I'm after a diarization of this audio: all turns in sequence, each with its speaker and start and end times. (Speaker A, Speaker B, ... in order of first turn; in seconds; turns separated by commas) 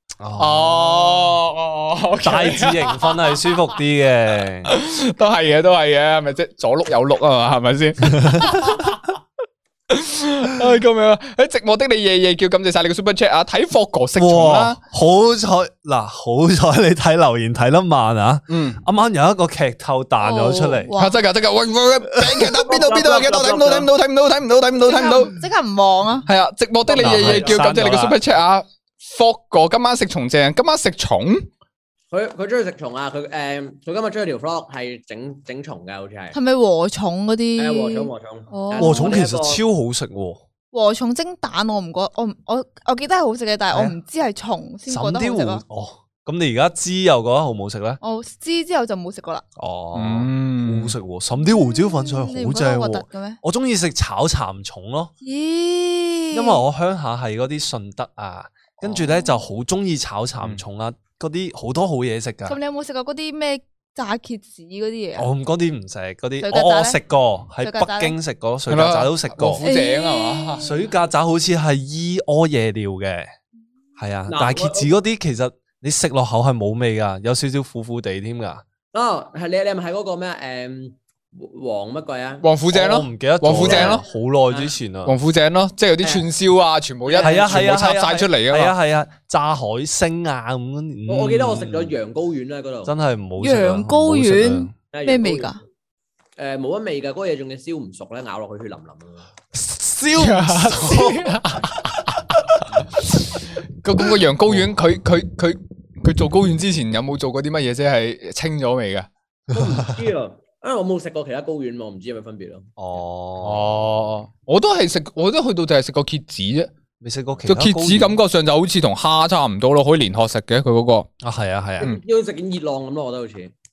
Speaker A: 0.2-1.4, Speaker B: 0.4-3.6, Speaker A: 2.2-4.7, Speaker B: 4.7-9.1, Speaker A: 8.1-8.6, Speaker B: 9.9-14.8, Speaker A: 14.2-20.9, Speaker B: 18.5-18.8, Speaker C: 20.2-21.2, Speaker B: 21.0-25.4, Speaker A: 22.1-22.5, Speaker D: 22.6-23.9, Speaker C: 24.8-26.3, Speaker B: 26.3-31.5, Speaker D: 26.9-27.7, Speaker A: 27.0-28.2, Speaker D: 32.1-36.4, Speaker C: 36.3-39.2, Speaker D: 37.6-39.6, Speaker A: 38.8-40.4, Speaker C: 40.7-45.6, Speaker A: 43.7-44.0, Speaker A: 44.9-48.0, Speaker C: 48.0-49.4, Speaker A: 49.6-55.1, Speaker B: 49.9-51.0, Speaker C: 51.4-53.4, Speaker C: 55.2-56.6, Speaker A: 56.3-62.6, Speaker C: 58.9-59.4, Speaker C: 62.5-65.3, Speaker A: 65.2-69.7, Speaker C: 66.4-67.0, Speaker C: 67.6-68.2, Speaker B: 68.7-70.7, Speaker C: 69.6-70.8, Speaker A: 70.6-73.3, Speaker A: 74.0-78.6, Speaker D: 74.3-74.9, Speaker D: 78.9-82.5, Speaker B: 82.4-84.0, Speaker A: 82.7-85.2, Speaker D: 83.6-84.7, Speaker B: 85.0-88.7, Speaker D: 87.0-87.6, Speaker A: 87.2-92.0, Speaker D: 91.1-92.9, Speaker A: 92.8-94.7, Speaker C: 93.4-95.6, Speaker D: 94.9-95.5, Speaker D: 96.4-99.3, Speaker A: 99.5-101.4, Speaker B: 100.1-109.1, Speaker A: 104.5-104.7, Speaker D: 109.5-112.7, Speaker A: 112.8-113.7, Speaker B: 113.4-116.7, Speaker A: 117.0-118.2, Speaker B: 117.5-121.1, Speaker A: 121.2-121.9, Speaker D: 121.8-123.5